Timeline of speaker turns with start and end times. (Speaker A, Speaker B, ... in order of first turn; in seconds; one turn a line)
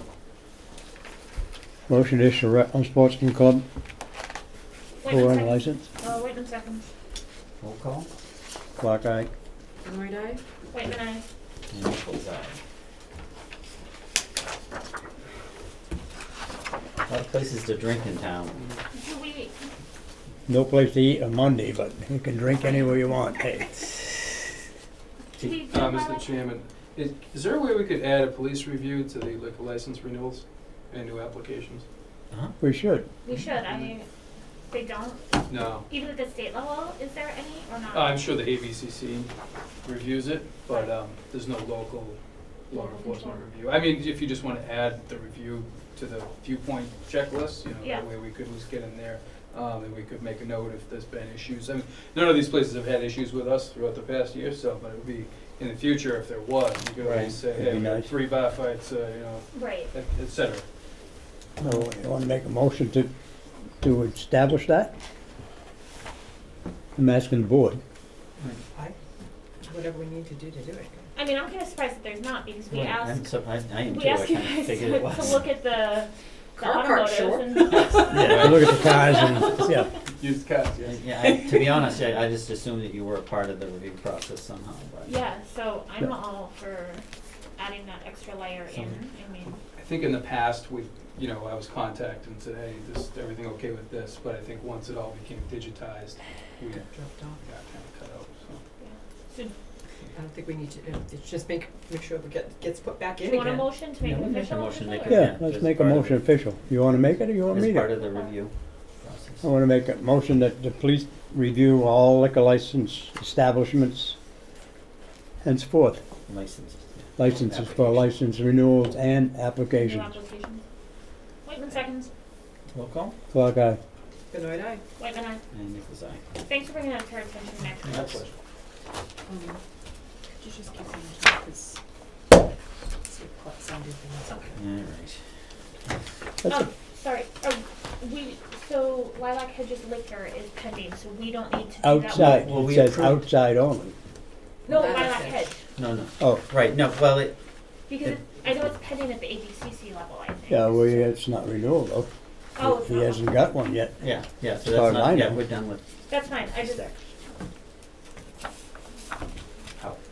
Speaker A: 1.9-3.6
Speaker B: 5.0-6.9
Speaker A: 5.1-5.8
Speaker C: 7.6-8.1
Speaker A: 8.8-9.3
Speaker D: 9.8-10.4
Speaker B: 10.7-11.2
Speaker C: 11.7-12.6
Speaker C: 17.1-18.6
Speaker E: 18.5-18.8
Speaker B: 18.9-19.5
Speaker A: 20.5-23.7
Speaker B: 22.6-22.9
Speaker C: 25.4-25.6
Speaker B: 25.4-26.3
Speaker E: 25.7-31.8
Speaker A: 32.6-33.0
Speaker B: 33.2-34.0
Speaker E: 33.6-33.9
Speaker B: 34.7-38.2
Speaker E: 35.5-35.9
Speaker E: 37.9-39.3
Speaker E: 39.8-42.2
Speaker E: 42.7-60.6
Speaker B: 42.7-43.4
Speaker C: 57.0-57.4
Speaker A: 57.5-58.1
Speaker B: 59.5-59.9
Speaker A: 61.6-63.1
Speaker A: 63.8-64.9
Speaker A: 67.0-67.8
Speaker D: 69.6-71.1
Speaker B: 71.1-73.3
Speaker C: 72.7-75.5
Speaker B: 73.8-79.4
Speaker D: 76.6-78.2
Speaker A: 78.1-79.9
Speaker C: 78.2-78.7
Speaker E: 80.2-81.1
Speaker C: 80.8-85.1
Speaker B: 85.0-87.0
Speaker B: 87.6-89.6
Speaker E: 89.7-98.6
Speaker D: 96.8-97.4
Speaker B: 98.8-99.5
Speaker D: 100.1-103.8
Speaker B: 103.2-105.3
Speaker C: 104.0-106.2
Speaker A: 105.1-107.9
Speaker C: 107.5-109.5
Speaker B: 108.0-108.3
Speaker A: 109.4-114.2
Speaker A: 115.4-116.0
Speaker C: 116.3-118.0
Speaker A: 117.2-120.1
Speaker B: 119.7-120.6
Speaker B: 121.4-122.1
Speaker C: 122.7-123.1
Speaker A: 123.3-123.8
Speaker D: 124.3-124.8
Speaker B: 125.0-125.4
Speaker C: 125.5-126.2
Speaker B: 126.4-128.2
Speaker C: 127.8-128.1
Speaker E: 127.8-128.3
Speaker D: 129.3-129.6
Speaker D: 130.4-131.8
Speaker D: 133.1-134.6
Speaker C: 134.5-135.2
Speaker A: 136.4-136.7
Speaker B: 136.5-142.5
Speaker A: 141.8-143.9
Speaker C: 142.1-143.2
Speaker B: 144.6-145.6
Speaker D: 144.7-145.4
Speaker C: 145.8-147.3
Speaker B: 147.9-151.1
Speaker A: 150.5-152.1
Speaker B: 152.6-153.3
Speaker A: 152.6-154.0
Speaker C: 154.0-155.8
Speaker A: 154.6-155.4
Speaker B: 156.1-156.8
Speaker C: 156.6-156.9